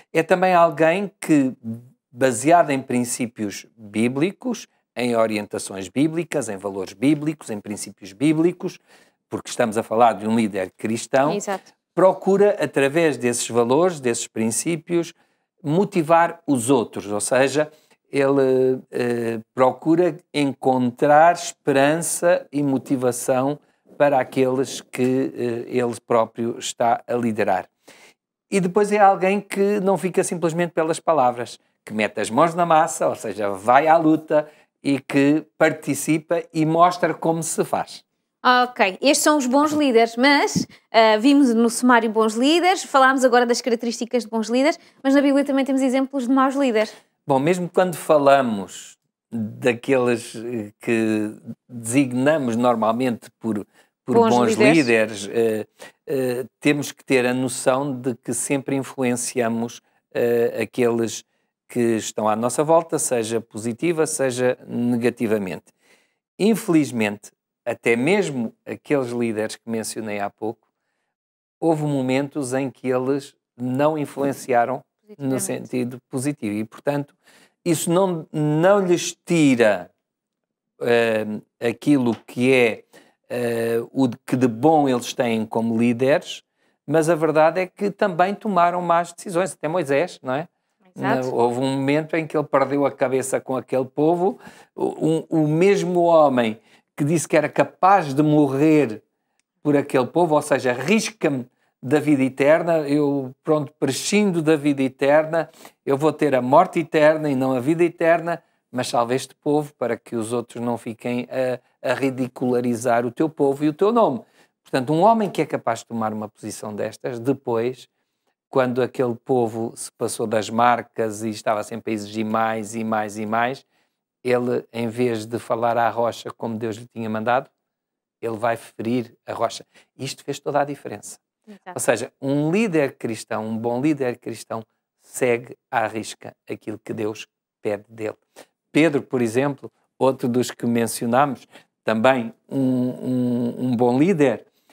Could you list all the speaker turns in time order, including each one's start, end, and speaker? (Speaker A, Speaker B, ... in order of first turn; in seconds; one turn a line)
Speaker A: 0.1-11.4
Speaker B: 11.3-11.7
Speaker A: 11.9-27.7
Speaker A: 28.5-38.0
Speaker B: 38.4-46.9
Speaker A: 47.3-65.7
Speaker B: 54.1-54.9
Speaker A: 66.4-70.6
Speaker A: 71.6-79.9
Speaker B: 75.1-75.6
Speaker A: 80.8-99.0
Speaker B: 90.9-91.3
Speaker A: 99.6-117.9
Speaker A: 118.5-123.7
Speaker A: 124.2-127.5
Speaker A: 128.2-131.2
Speaker A: 131.7-138.2
Speaker A: 138.7-144.4